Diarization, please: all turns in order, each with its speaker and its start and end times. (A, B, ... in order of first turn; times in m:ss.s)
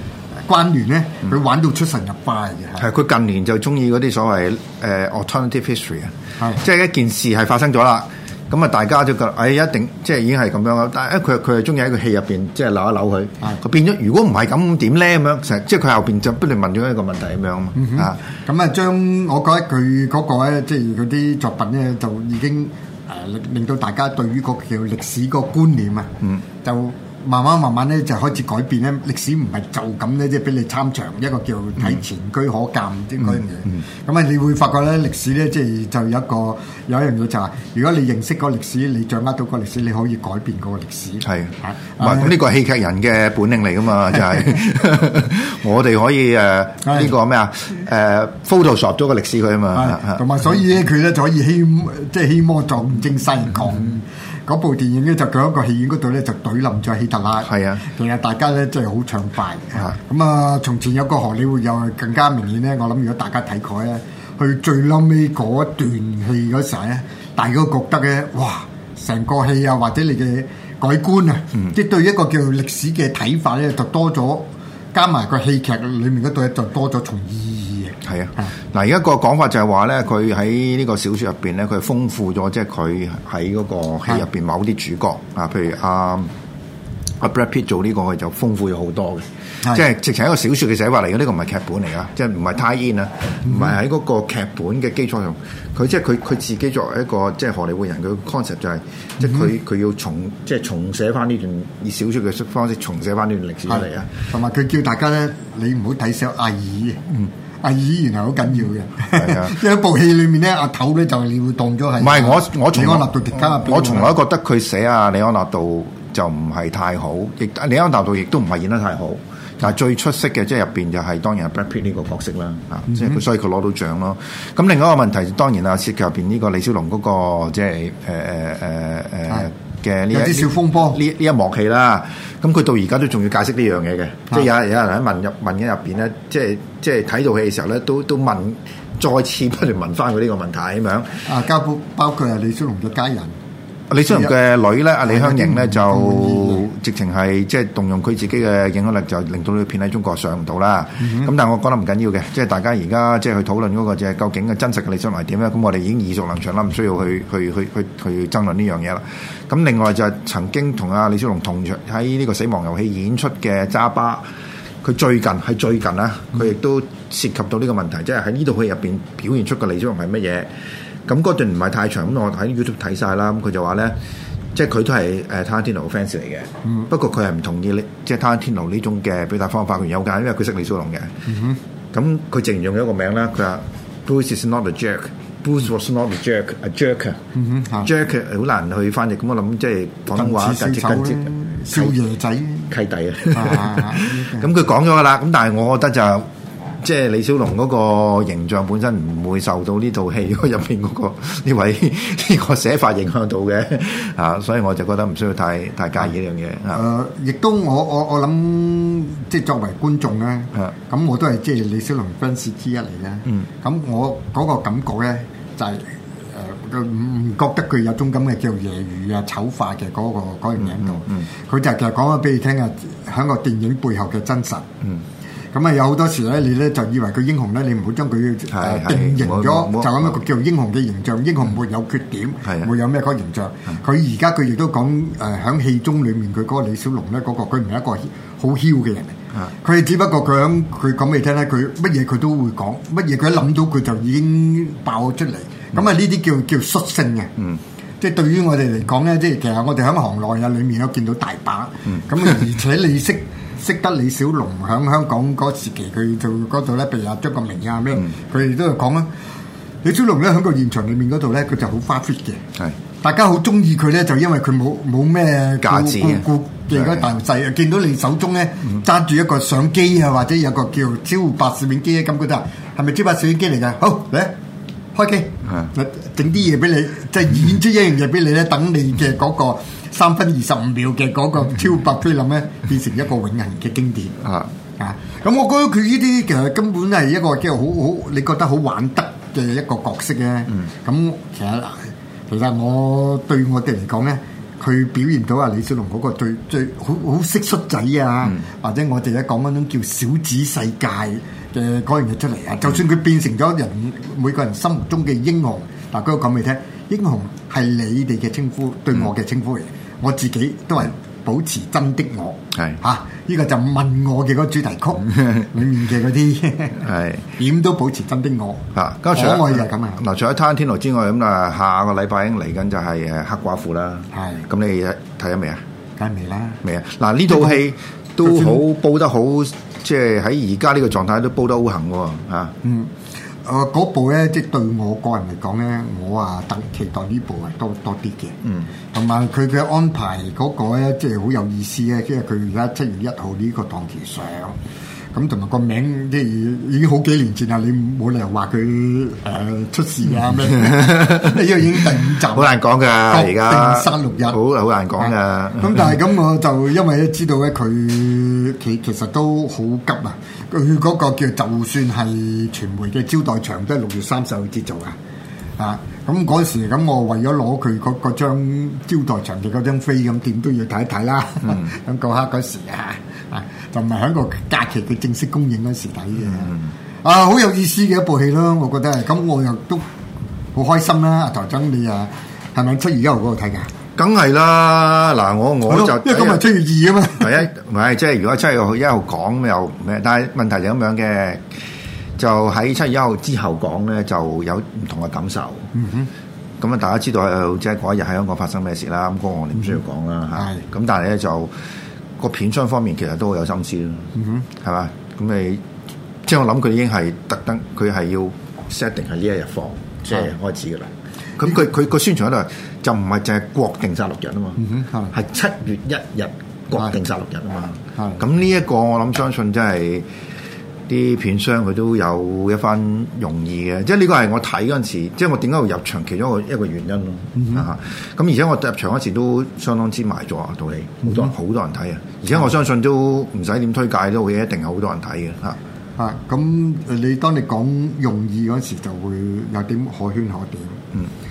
0:00.5-0:02.9 A
0:02.8-0:18.2 B
0:17.8-0:26.1 A
0:26.6-0:42.3 A
0:41.2-0:50.2 B
0:46.9-0:47.1 A
0:49.7-1:18.5 A
0:57.5-0:57.8 B
1:18.0-1:26.3 B
1:27.2-1:44.1 B
1:33.5-1:33.7 A
1:39.2-1:39.5 A
1:43.7-1:47.1 A
1:47.6-1:54.1 A
1:49.1-1:49.6 B
1:52.0-2:21.2 B
2:02.9-2:03.2 A
2:10.1-2:11.0 A
2:21.2-2:23.4 A
2:23.9-2:44.2 B
2:24.1-2:24.3 A
2:25.0-2:26.6 A
2:31.0-2:31.3 A
2:44.8-2:50.5 B
2:51.1-2:54.0 B
2:54.5-3:01.1 B
3:01.3-3:01.6 A
3:01.9-3:07.2 B
3:07.3-3:07.9 A
3:07.8-3:12.0 B
3:10.1-3:12.7 A
3:12.7-3:16.3 B
3:13.3-3:14.5 A
3:16.8-3:26.8 B
3:26.7-3:44.6 A
3:40.6-3:41.3 B
3:45.5-4:07.3 A
3:48.5-3:50.2 B
4:08.0-4:19.1 A
4:19.8-4:22.4 A
4:23.0-4:34.3 A
4:25.6-4:27.1 B
4:34.9-4:44.2 A
4:44.2-4:44.5 B
4:44.8-5:16.8 A
5:16.8-5:17.3 B
5:17.4-5:20.0 A
5:18.8-5:25.6 B
5:24.1-5:24.5 A
5:26.0-5:26.6 A
5:26.6-5:32.5 B
5:27.3-5:27.6 A
5:28.2-5:28.6 A
5:32.6-5:32.9 A
5:33.4-5:38.4 A
5:38.9-5:44.6 A
5:45.1-5:52.6 A
5:50.7-5:51.2 B
5:52.3-5:56.0 B
5:53.1-5:54.4 A
5:55.0-6:05.0 A
6:05.6-6:19.8 A
6:20.5-6:23.7 A
6:24.0-6:26.4 B
6:25.7-6:27.4 A
6:27.2-6:31.4 B
6:32.2-6:35.7 B
6:35.7-6:36.1 A
6:36.6-6:41.5 B
6:40.4-6:40.6 A
6:42.2-6:44.1 B
6:44.2-6:44.5 A
6:44.6-6:45.6 B
6:46.2-7:00.1 B
6:54.6-6:55.1 A
6:58.0-6:58.2 A
7:00.9-7:15.6 B
7:07.4-7:07.7 A
7:16.0-7:20.8 A